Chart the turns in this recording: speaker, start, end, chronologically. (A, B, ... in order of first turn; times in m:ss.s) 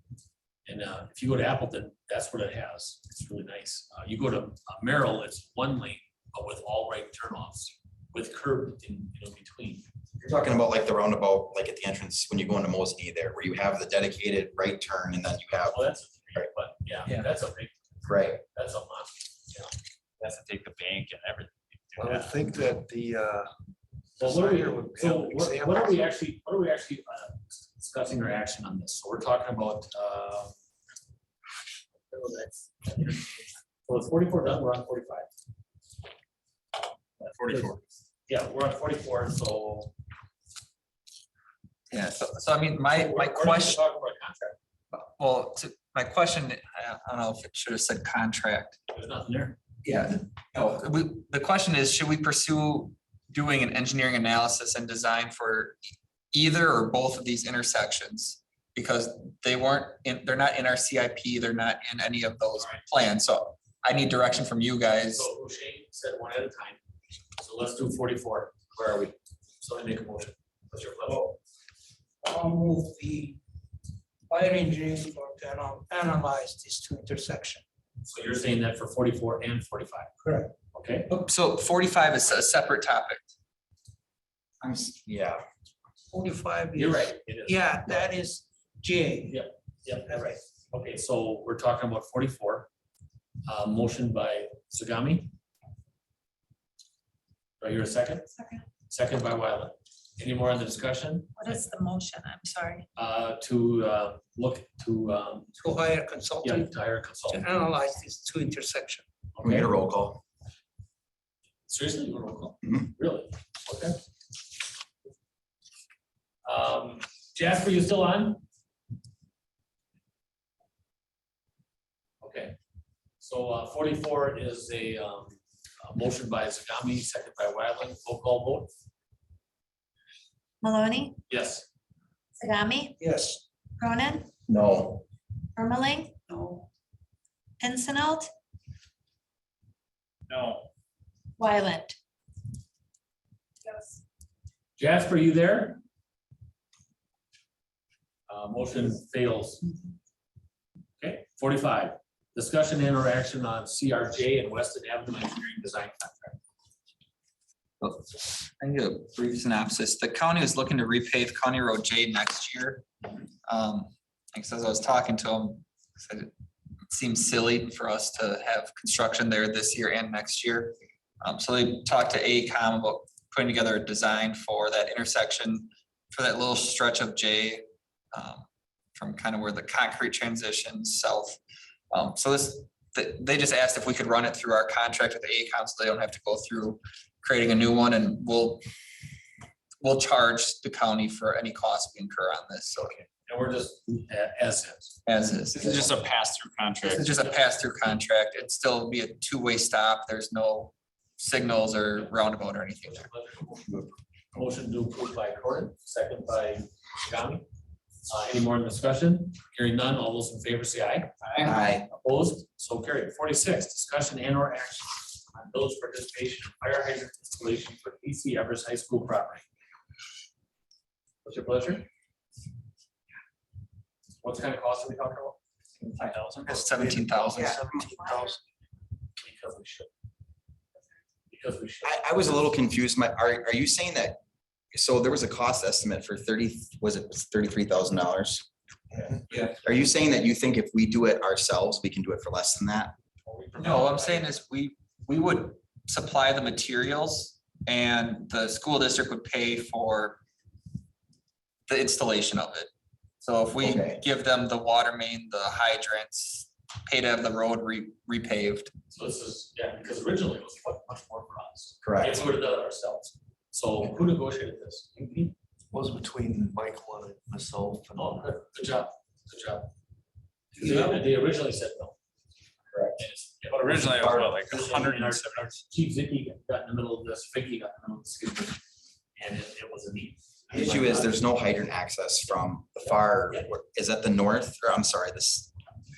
0:00.6-0:09.8 A
0:10.2-0:15.8 B
0:15.7-0:19.7 A
0:18.0-0:18.4 B
0:20.2-0:22.6 C
0:22.0-0:23.6 D
0:24.2-0:30.5 A
0:24.2-0:26.1 D
0:32.1-0:35.3 A
0:37.2-0:37.7 A
0:37.2-0:37.8 C
0:38.3-0:39.9 A
0:41.9-0:43.8 E
0:42.9-0:44.6 A
0:44.9-0:48.8 E
0:48.9-0:49.6 A
0:49.8-0:55.8 E
0:56.3-1:05.3 E
1:05.1-1:06.8 A
1:07.4-1:11.3 A
1:12.2-1:13.4 F
1:14.3-1:17.6 F
1:18.0-1:20.1 A
1:20.2-1:20.5 F
1:20.7-1:21.1 A
1:21.1-1:23.3 E
1:24.6-1:25.4 B
1:26.1-1:29.4 F
1:26.7-1:28.1 A
1:29.3-1:32.7 A
1:30.1-1:30.4 F
1:33.4-1:35.3 A
1:37.6-1:38.3 A
1:38.4-1:38.6 G
1:38.9-1:41.6 A
1:41.4-1:42.8 G
1:43.0-1:45.5 A
1:45.6-1:46.7 F
1:46.4-1:47.4 A
1:47.3-1:49.0 F
1:49.3-1:49.7 A
1:49.4-1:50.2 B
1:51.7-1:54.0 A
1:56.4-1:58.4 A
2:02.2-2:02.6 A
2:03.2-2:08.7 A
2:10.6-2:11.2 G
2:11.3-2:11.7 A
2:12.4-2:13.0 G
2:13.0-2:13.4 F
2:13.8-2:14.3 G
2:14.5-2:15.0 B
2:15.6-2:16.1 G
2:16.3-2:16.6 F
2:17.6-2:18.3 G
2:20.3-2:20.7 C
2:21.4-2:22.0 G
2:23.6-2:24.0 G
2:24.8-2:25.8 A
2:28.3-2:29.7 A
2:31.0-2:36.4 A
2:37.8-2:42.8 E
2:43.5-2:46.3 E
2:46.9-2:57.6 E
2:58.1-3:01.4 E
3:01.9-3:08.6 E
3:09.8-3:13.0 E
3:13.2-3:15.0 A
3:15.0-3:15.9 E
3:15.5-3:17.1 C
3:16.8-3:23.1 E
3:22.8-3:27.4 A
3:28.1-3:31.1 A
3:31.4-3:31.9 B
3:32.0-3:39.4 A
3:41.2-3:41.8 A
3:44.2-3:45.4 A
3:45.8-3:47.5 C
3:45.9-3:47.6 E
3:46.4-3:48.4 D
3:47.3-3:47.6 F
3:49.2-3:49.9 A
3:51.3-3:52.5 A
3:51.8-3:54.2 B
3:54.7-3:58.5 B
3:59.1-4:02.9 B
3:59.3-3:59.6 E
4:03.2-4:04.4 A
4:03.6-4:10.2 E
4:11.7-4:12.7 E
4:13.2-4:18.7 E
4:13.6-4:14.0 B
4:18.9-4:25.3 A
4:21.8-4:22.2 B
4:25.7-4:28.7 D
4:28.0-4:29.7 A
4:30.5-4:32.0 A
4:30.7-4:30.9 C
4:33.0-4:38.6 A
4:33.5-4:35.6 C
4:39.2-4:41.2 A
4:40.5-4:45.5 B